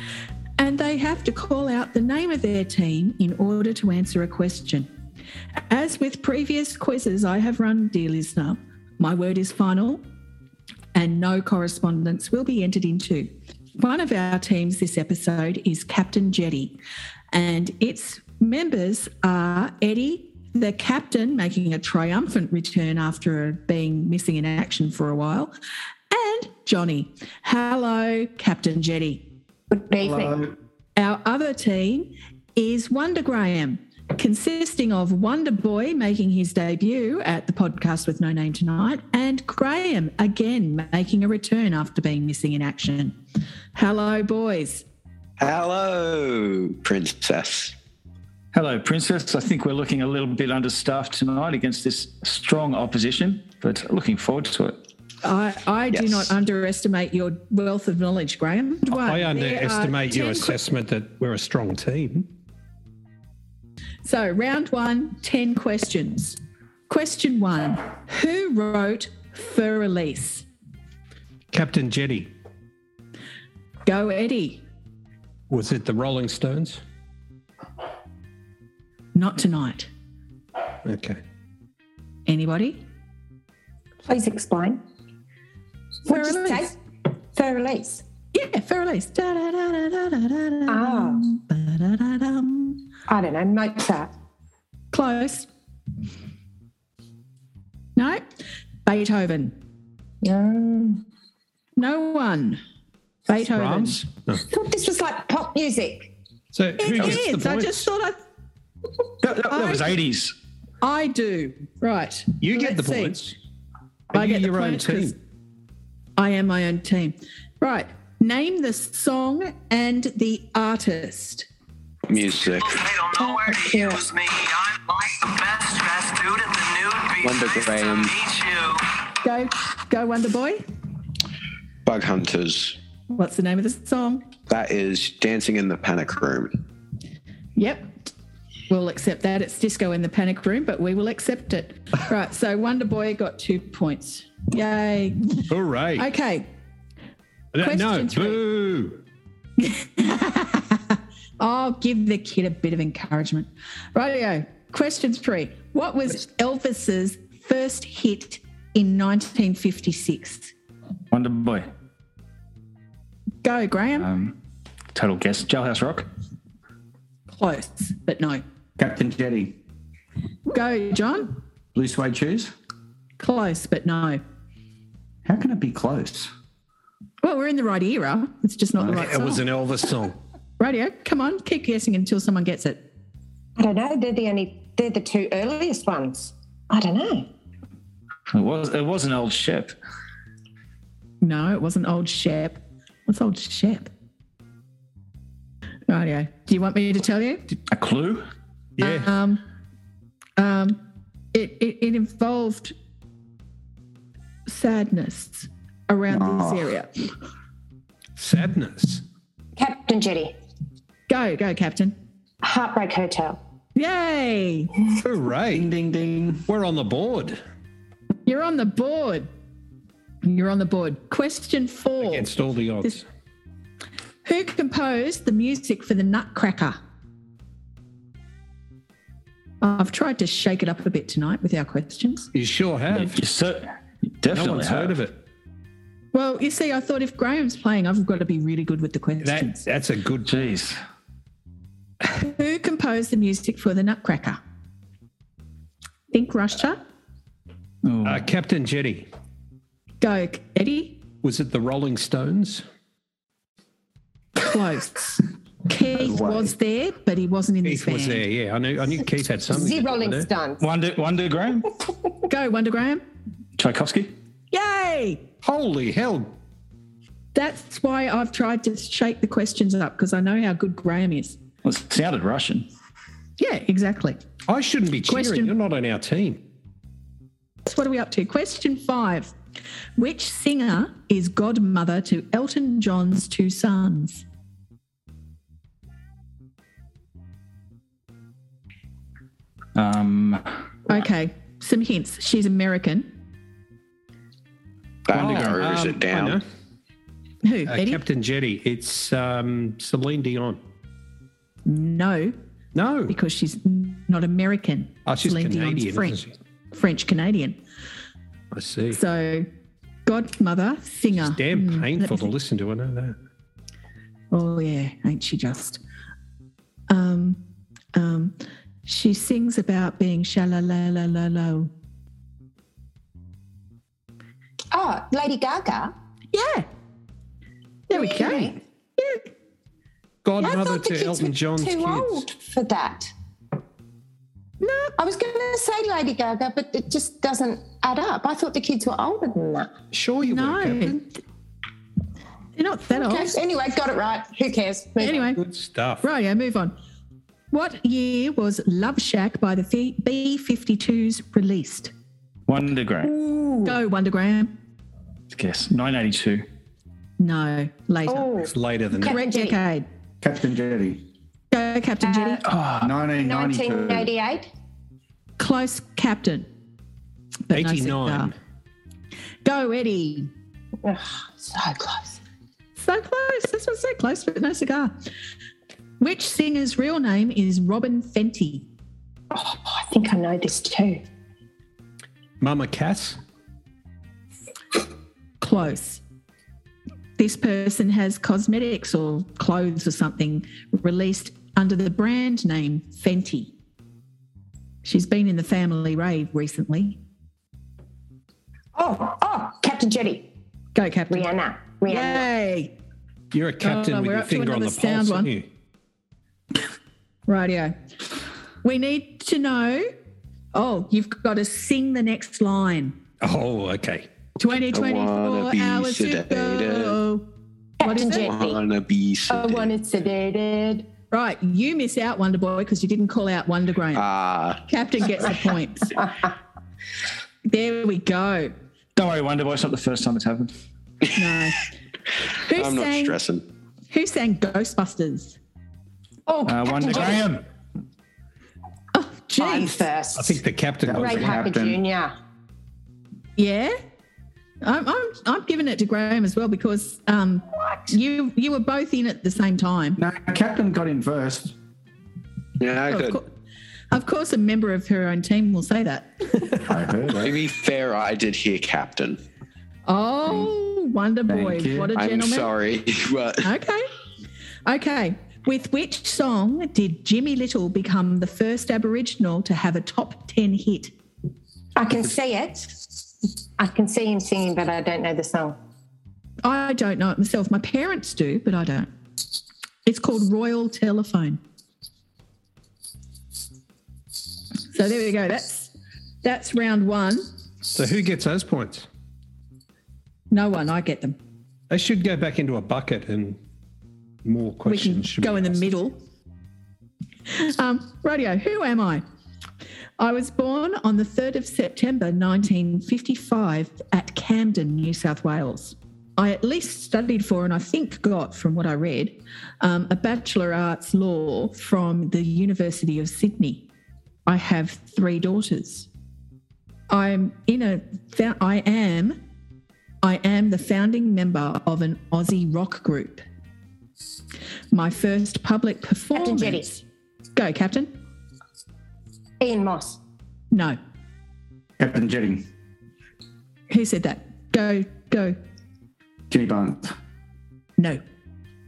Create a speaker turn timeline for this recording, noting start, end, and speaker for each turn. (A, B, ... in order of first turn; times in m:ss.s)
0:00.6-0:04.9 A
0:05.7-0:10.0 A
0:11.0-0:16.7 A
0:17.3-0:25.5 A
0:26.1-0:29.2 A
0:29.7-0:30.4 B
0:30.0-0:30.5 C
0:31.0-0:43.2 A
0:43.8-0:44.8 A
0:45.4-0:47.7 D
0:48.5-0:54.8 E
0:55.2-1:00.6 A
0:55.9-0:56.3 D
0:58.9-1:02.3 F
1:04.0-1:06.4 A
1:06.9-1:10.5 A
1:11.5-1:12.3 F
1:13.9-1:14.6 A
1:15.5-1:16.8 F
1:19.2-1:19.9 A
1:20.8-1:21.2 F
1:22.3-1:22.8 A
1:24.1-1:24.8 B
1:26.1-1:26.8 B
1:26.1-1:26.7 A
1:27.3-1:28.0 B
1:28.3-1:32.8 A
1:30.7-1:31.2 B
1:33.1-1:34.1 B
1:34.9-1:35.5 A
1:38.0-1:38.2 A
1:38.9-1:39.5 A
1:40.2-1:41.0 B
1:41.8-1:42.6 A
1:43.3-1:44.1 A
1:43.5-1:44.4 F
1:44.5-1:46.1 B
1:46.5-1:47.8 F
1:46.8-1:48.2 A
1:49.2-1:50.3 E
1:49.5-1:50.0 A
1:50.8-1:53.2 A
1:52.4-1:53.4 F
1:54.1-1:55.2 A
1:54.1-1:55.2 F
1:56.2-2:01.5 A
2:02.1-2:03.1 D
2:03.1-2:04.1 B
2:03.2-2:04.2 G
2:05.2-2:07.1 G
2:07.1-2:08.4 D
2:09.2-2:10.6 A
2:11.8-2:12.8 D
2:13.1-2:14.2 A
2:14.5-2:16.5 D
2:17.6-2:17.8 A
2:18.7-2:26.4 A
2:25.5-2:26.1 F
2:27.5-2:29.0 F
2:27.6-2:28.4 A
2:29.6-2:40.5 A
2:41.1-2:41.7 E
2:43.4-2:44.1 A
2:44.0-2:44.3 E
2:44.9-2:46.1 E
2:47.3-2:48.4 A
2:48.8-2:49.6 C
2:50.5-2:51.4 A
2:51.8-2:52.5 C
2:53.2-2:54.2 A
2:55.3-2:56.3 C
2:57.2-2:59.4 A
2:58.8-3:00.2 F
3:00.6-3:02.8 A
3:03.6-3:07.3 B
3:08.3-3:09.7 E
3:11.2-3:13.9 A
3:15.9-3:17.4 A
3:17.7-3:18.2 E
3:18.8-3:19.1 F
3:18.8-3:19.4 A
3:20.4-3:20.8 A
3:21.3-3:22.7 A
3:24.5-3:26.9 A
3:26.1-3:26.7 C
3:28.2-3:29.0 F
3:29.6-3:30.4 B
3:31.1-3:31.9 A
3:32.4-3:33.4 B
3:33.8-3:34.8 A
3:35.0-3:35.7 F
3:35.5-3:36.5 C
3:36.5-3:37.4 F
3:38.3-3:39.3 A
3:40.2-3:42.3 A
3:42.0-3:43.0 F
3:44.2-3:46.8 A
3:49.6-3:52.3 A
3:52.3-3:53.2 F
3:52.9-3:53.7 E
3:54.2-3:55.0 E
3:54.3-3:55.1 F
3:56.1-3:59.6 A
3:59.2-4:00.4 F
4:00.3-4:00.8 E
4:02.0-4:04.4 A
4:06.1-4:06.8 A
4:07.8-4:08.3 E
4:08.0-4:09.1 F
4:10.0-4:11.0 A
4:11.2-4:12.6 F
4:14.4-4:18.2 A
4:16.0-4:16.5 C
4:17.6-4:20.3 F
4:19.5-4:20.6 B
4:20.6-4:21.7 E
4:22.3-4:23.0 A
4:23.6-4:24.1 E
4:24.5-4:25.2 A
4:25.4-4:26.3 F
4:27.3-4:31.4 A
4:31.6-4:32.7 E
4:33.4-4:34.2 A
4:34.5-4:36.4 F
4:35.1-4:35.5 A
4:37.6-4:39.3 A
4:40.0-4:44.2 A
4:49.8-4:50.6 E
4:50.9-4:53.1 A
4:55.1-4:56.4 D
4:55.1-4:55.6 E
4:55.2-4:56.4 F
4:57.4-4:58.0 A
4:57.7-5:00.6 F
5:01.7-5:02.4 A
5:02.8-5:03.2 F
5:03.1-5:06.2 A
5:05.1-5:06.3 F
5:06.7-5:07.6 A
5:08.5-5:09.0 F
5:08.9-5:09.5 A
5:10.1-5:12.3 A
5:11.1-5:13.2 F
5:14.3-5:15.8 A
5:16.9-5:17.4 A
5:18.0-5:21.7 A
5:24.7-5:25.9 B
5:26.3-5:26.7 A
5:27.9-5:28.6 B
5:27.9-5:29.3 A
5:30.2-5:32.3 F
5:30.4-5:33.1 B
5:34.6-5:34.9 A
5:35.0-5:39.7 B
5:39.9-5:41.0 F
5:40.2-5:41.0 A
5:42.6-5:43.4 A
5:42.9-5:45.2 B
5:45.0-5:45.4 A
5:45.3-5:46.0 F
5:46.0-5:46.7 A
5:47.5-5:51.9 A
5:52.5-5:53.1 E
5:53.0-5:53.8 B
5:53.6-5:54.5 A
5:55.3-5:56.4 E
5:57.2-5:58.3 A
5:58.1-5:59.6 B
5:58.5-5:59.2 F
5:59.0-5:59.9 A
6:00.2-6:01.0 C
6:01.5-6:02.4 A
6:02.0-6:02.4 B
6:02.5-6:03.1 E
6:02.8-6:04.1 C
6:03.2-6:04.5 B
6:05.4-6:06.5 A
6:07.5-6:08.3 A
6:07.5-6:08.4 F
6:09.4-6:10.3 A
6:10.8-6:12.2 B
6:12.8-6:14.9 A
6:16.0-6:18.6 A
6:19.3-6:21.0 B
6:22.4-6:23.2 F
6:25.4-6:26.0 A
6:27.2-6:33.5 A
6:34.8-6:37.0 A
6:38.8-6:40.2 B
6:40.8-6:41.3 A
6:41.1-6:42.3 B
6:41.9-6:42.7 A
6:43.3-6:45.5 F
6:43.6-6:45.3 A
6:47.3-6:47.7 A
6:48.6-6:49.9 A
6:50.5-6:52.9 A
6:53.2-6:54.1 F
6:54.4-6:57.2 A
6:54.7-6:57.0 D
6:57.8-6:58.6 B
6:57.8-6:58.3 A
6:58.1-6:59.8 D
6:59.3-7:00.9 B
7:01.1-7:04.0 A
7:03.9-7:04.6 D
7:04.7-7:06.1 A
7:07.4-7:08.5 A
7:09.0-7:10.5 E
7:11.1-7:11.7 A
7:12.3-7:13.2 A
7:12.5-7:13.4 D
7:13.9-7:15.4 A
7:16.3-7:17.2 B
7:16.4-7:17.4 E
7:18.9-7:19.9 A
7:19.4-7:20.4 B
7:20.2-7:21.3 F
7:20.8-7:21.8 C
7:21.0-7:22.1 B
7:23.4-7:23.7 A
7:24.6-7:30.0 A
7:30.0-7:31.5 C
7:32.6-7:33.2 D
7:32.9-7:33.2 A
7:33.9-7:36.7 A
7:36.7-7:37.4 C
7:37.2-7:39.2 D
7:39.9-7:42.6 A
7:41.3-7:41.9 C
7:42.0-7:43.4 D
7:43.4-7:43.9 A
7:44.7-7:50.9 A
7:51.8-7:53.0 B
7:53.6-7:55.6 B
7:56.4-7:58.9 A
7:59.8-8:01.4 A
8:04.7-8:05.7 A
8:06.2-8:07.2 A
8:07.7-8:08.9 F
8:10.3-8:11.2 A
8:11.7-8:13.4 F
8:14.2-8:15.6 F
8:14.6-8:16.0 A
8:17.3-8:19.0 A
8:20.0-8:33.6 A
8:34.3-8:35.9 A
8:36.9-8:39.2 A
8:40.0-8:43.3 A
8:44.7-8:46.8 A
8:46.1-8:46.7 B
8:47.4-8:47.9 A
8:49.4-8:50.0 B
8:50.5-8:50.8 A
8:51.8-8:52.4 C
8:53.7-8:55.4 A
8:56.3-8:56.9 C